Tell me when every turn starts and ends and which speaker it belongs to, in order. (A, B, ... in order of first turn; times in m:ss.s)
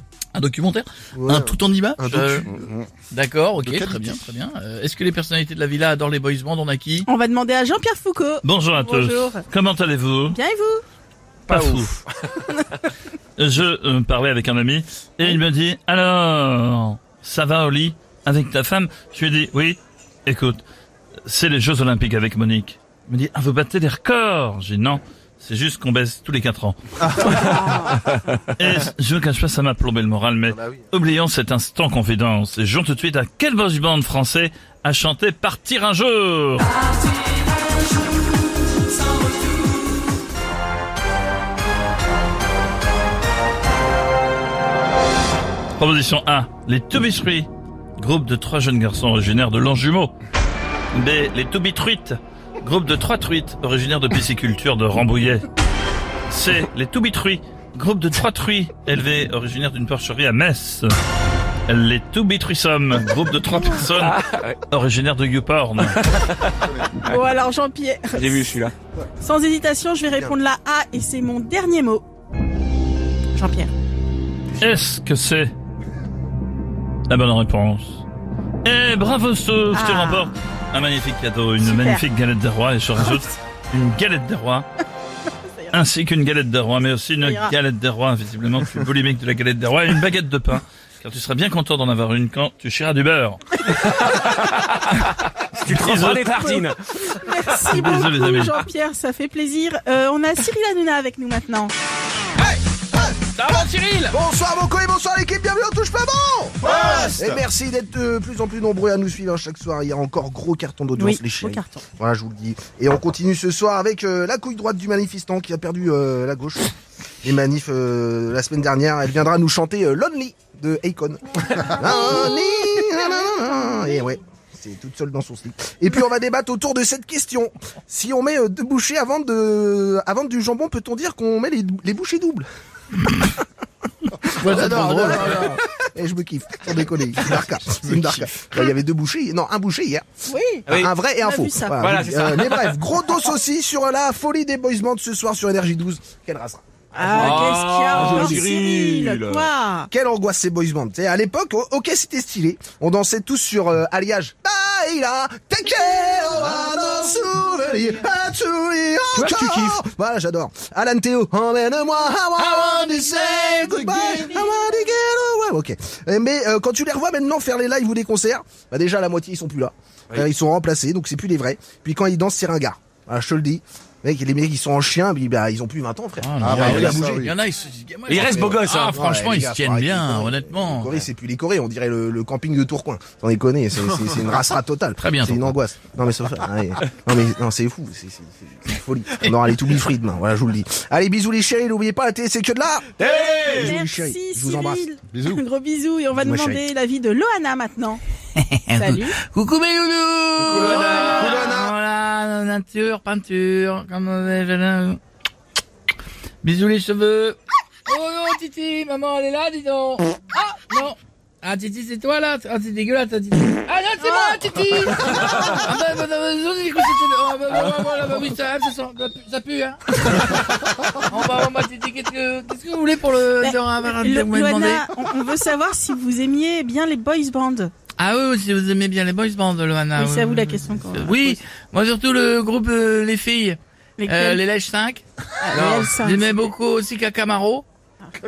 0:00.4-0:02.5 A
0:01.1-0:02.9 B
0:03.1-0:07.1 A
0:03.6-0:04.0 B
0:07.1-0:09.4 C
0:08.4-0:10.4 D
0:10.3-0:10.8 C
0:11.5-0:12.0 D
0:11.5-0:12.4 E
0:13.4-0:20.6 D
0:21.2-0:27.5 D
0:27.2-0:28.4 C
0:28.5-0:36.8 D
0:30.5-0:30.8 B
0:45.8-0:50.1 D
0:50.9-0:55.5 D
0:56.3-1:00.9 D
1:01.7-1:06.0 D
1:03.5-1:03.8 C
1:04.0-1:04.6 E
1:06.1-1:06.5 E
1:07.0-1:08.4 C
1:08.1-1:08.7 E
1:09.2-1:12.0 C
1:13.4-1:13.7 C
1:14.6-1:15.5 D
1:17.1-1:18.0 D
1:18.6-1:24.7 D
1:19.7-1:20.3 C
1:21.6-1:22.0 C
1:25.5-1:25.8 C
1:25.7-1:33.6 D
1:27.2-1:27.5 C
1:33.9-1:34.8 E
1:35.5-1:36.8 E
1:35.6-1:36.4 D
1:36.3-1:41.7 C
1:37.7-1:38.6 D
1:42.9-1:56.7 B
1:43.4-1:44.2 A
1:51.0-1:51.8 C
1:57.2-2:12.5 B
2:14.2-2:20.0 B
2:14.4-2:15.5 A
2:14.8-2:15.2 D
2:20.3-2:20.7 C
2:20.7-2:28.0 B
2:21.2-2:21.8 C
2:21.8-2:22.8 E
2:27.0-2:29.9 C
2:27.1-2:29.5 E
2:29.9-2:57.3 B
2:39.1-2:39.8 E
2:42.6-2:44.2 A
2:56.2-3:01.1 A
2:56.5-2:57.2 E
2:58.1-2:58.9 E
2:58.1-3:15.4 B
3:05.0-3:05.5 A
3:13.0-3:13.8 E
3:13.5-3:18.0 C
3:16.1-3:16.6 B
3:18.4-3:25.0 A
3:18.8-3:19.2 C
3:20.5-3:21.6 C
3:20.5-3:21.4 E
3:26.4-3:44.9 A
3:34.0-3:34.4 C
3:43.4-3:47.7 C
3:48.0-3:55.0 A
3:50.0-3:51.4 C
3:54.0-3:54.4 C
3:55.4-3:56.4 C
3:55.5-3:55.9 E
3:55.6-3:57.6 A